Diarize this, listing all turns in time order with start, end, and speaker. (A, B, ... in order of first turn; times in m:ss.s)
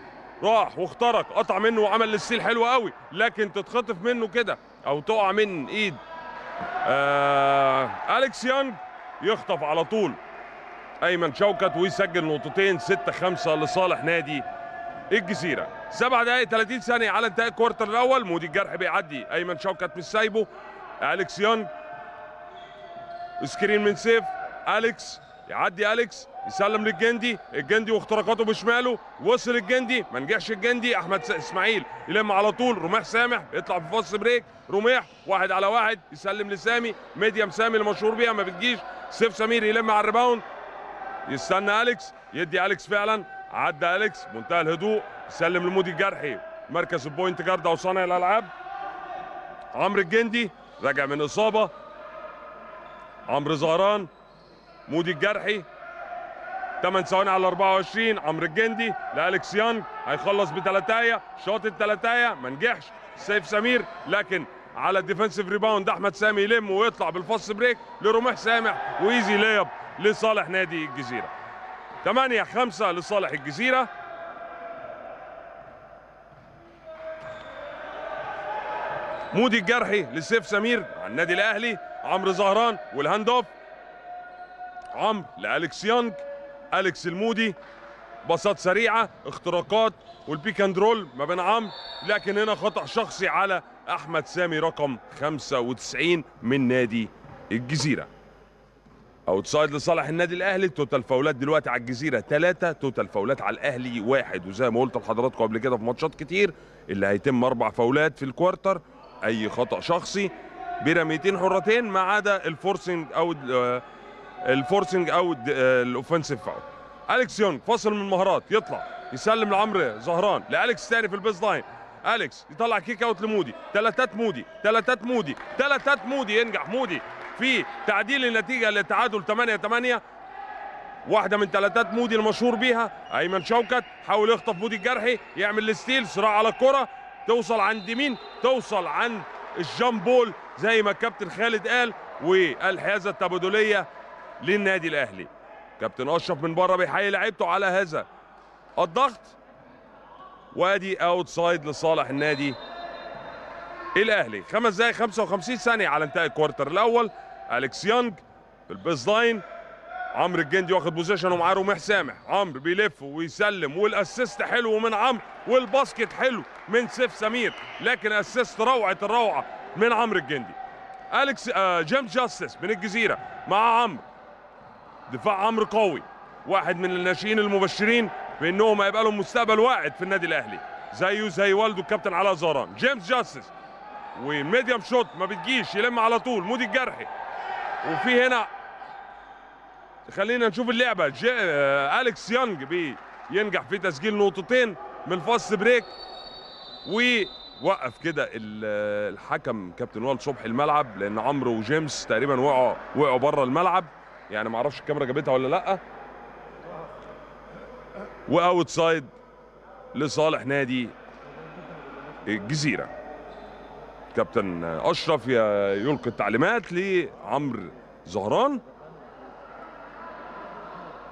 0:00.4-0:06.0 A
0:06.8-0:10.2 A
0:11.0-0:14.4 A
0:15.1-0:20.5 A
0:21.0-0:21.7 A
0:23.4-0:40.4 A
0:41.3-0:48.5 A
0:49.7-0:51.7 A
0:53.3-0:54.1 A
0:54.9-0:55.6 A
0:56.8-1:11.3 A
1:12.0-1:13.9 A
1:19.3-1:23.5 A
1:24.9-1:27.6 A
1:28.2-1:38.1 A
1:39.3-1:53.8 A
1:54.4-2:10.0 A
2:11.0-2:23.9 A
2:24.4-2:28.0 A
2:28.8-2:29.4 A
2:30.5-2:32.6 A
2:33.9-2:39.4 A
2:40.1-2:50.6 A
2:51.1-2:54.0 A
2:55.1-3:03.5 A
3:04.1-3:07.1 A
3:07.8-3:08.5 A
3:10.0-3:15.9 A
3:16.8-3:25.8 A
3:28.3-3:29.1 A
3:29.9-3:30.9 A
3:32.2-3:32.9 A
3:34.1-3:38.6 A